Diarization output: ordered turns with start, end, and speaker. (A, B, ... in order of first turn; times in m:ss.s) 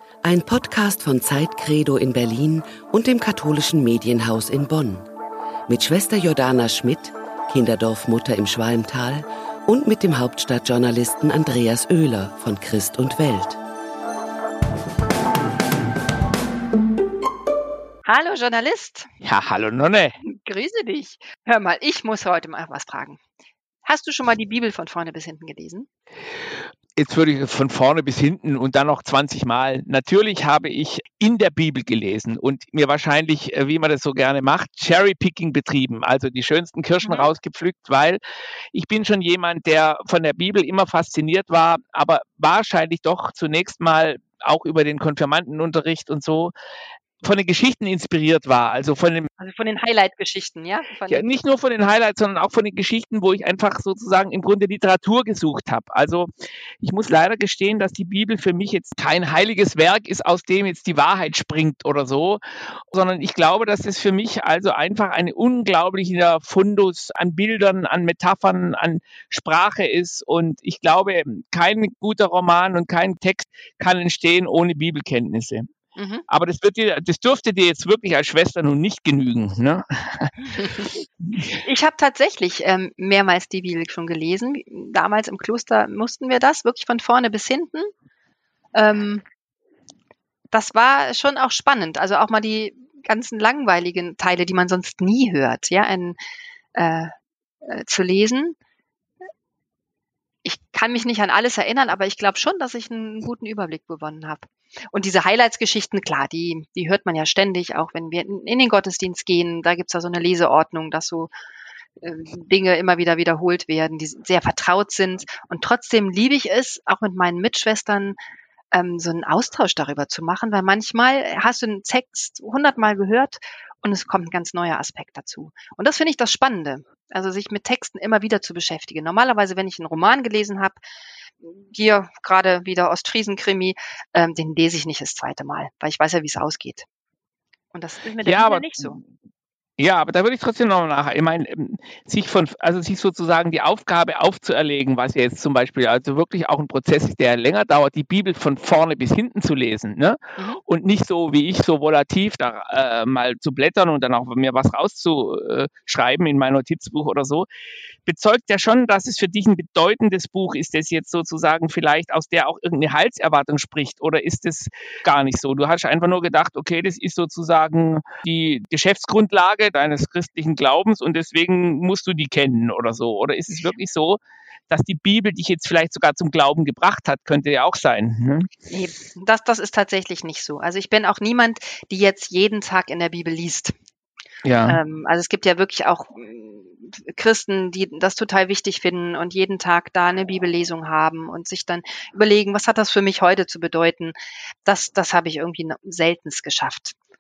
0:00.2-0:05.1 A
0:05.7-0:13.6 A
0:18.1-0:19.1 B
0:19.2-0:20.2 C
0:20.2-0:23.2 B
0:23.8-0:25.9 B
0:27.0-0:38.2 C
0:37.0-0:37.3 B
0:38.7-0:46.5 C
0:47.2-0:49.3 C
0:49.4-0:51.2 B
0:51.1-0:56.3 C
0:56.8-1:15.7 C
1:16.0-1:16.2 B
1:16.3-1:20.9 C
1:20.5-1:20.9 B
1:21.6-1:27.9 B
1:28.8-1:29.2 B
1:30.5-1:36.2 B
1:36.8-1:37.1 B
1:37.6-1:38.6 B
1:40.4-1:51.3 B
1:52.0-1:58.2 B
1:58.7-2:10.8 B
2:11.4-2:16.9 B
2:17.7-2:19.0 B
2:18.2-2:19.0 C
2:19.8-2:37.5 C
2:38.1-2:58.5 C
2:58.7-3:03.7 B
3:04.4-3:04.8 C
3:04.7-3:17.0 B